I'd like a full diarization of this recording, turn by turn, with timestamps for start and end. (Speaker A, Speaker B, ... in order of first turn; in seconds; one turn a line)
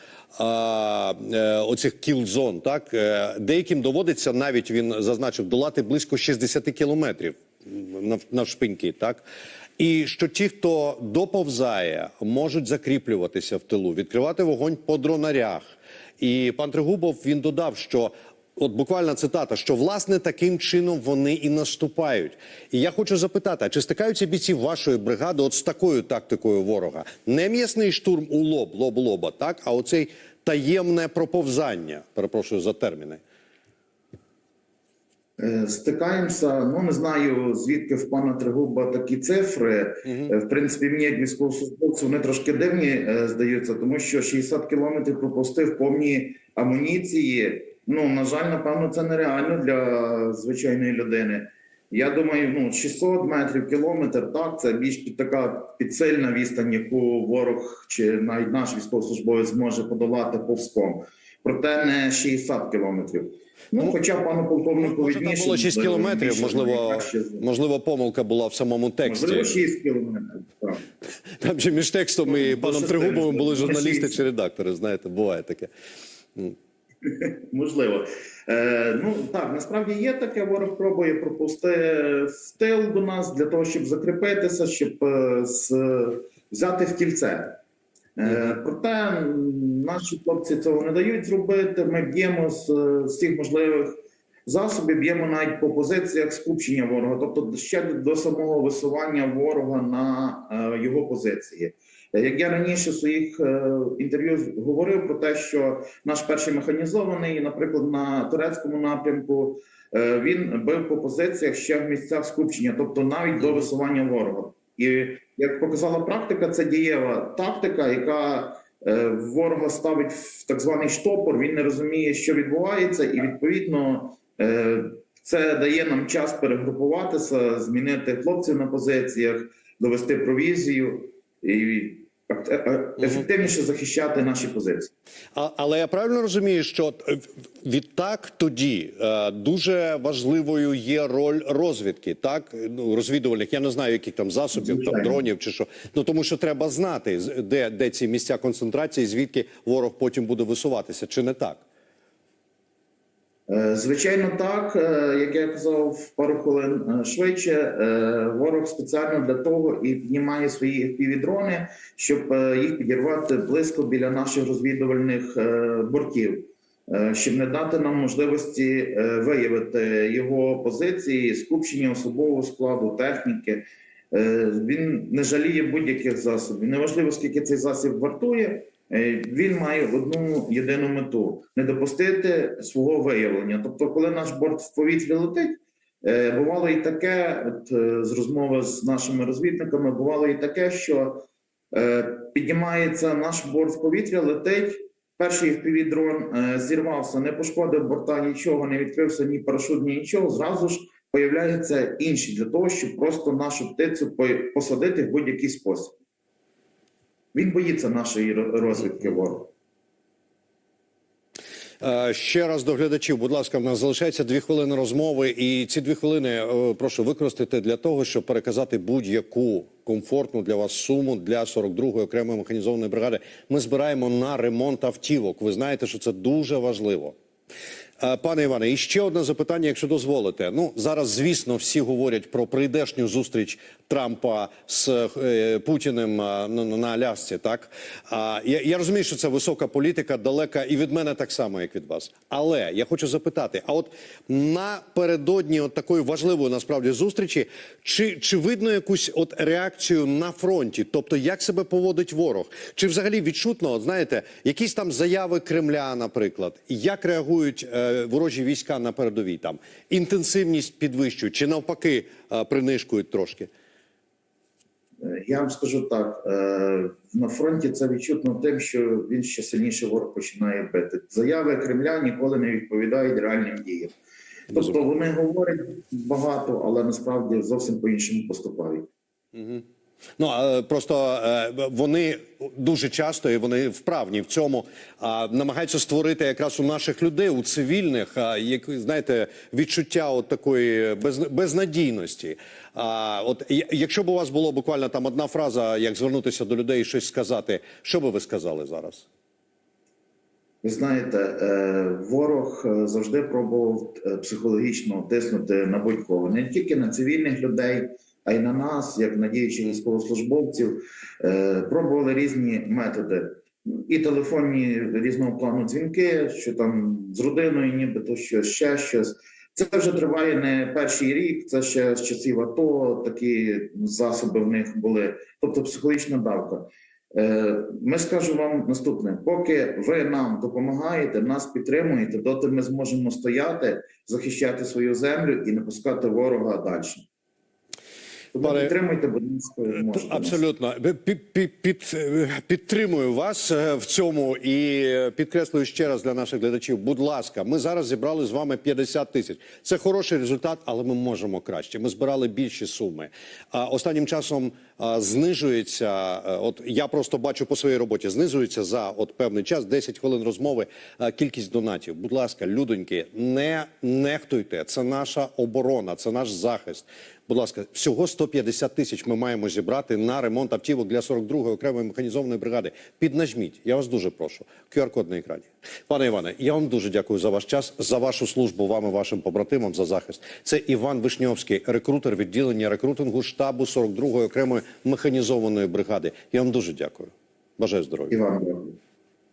Speaker A: 0.3-9.2
Speaker A: 9.8-33.2
Speaker B: 35.4-67.4
Speaker A: 40.0-40.3
Speaker A: 64.8-69.5
Speaker B: 69.0-70.8
Speaker A: 71.4-75.7
Speaker B: 72.2-74.2
Speaker B: 77.0-87.6
Speaker B: 88.2-134.9
Speaker A: 135.3-151.6
Speaker B: 144.5-145.2
Speaker B: 153.5-205.9
Speaker B: 207.3-209.5
Speaker A: 211.8-227.1
Speaker A: 228.0-263.5
Speaker B: 265.0-273.9
Speaker B: 274.5-278.9
Speaker A: 279.3-279.6
Speaker A: 280.2-299.1
Speaker B: 300.6-337.0
Speaker B: 338.3-340.4
Speaker A: 338.4-338.7
Speaker A: 339.7-388.1
Speaker B: 388.1-388.8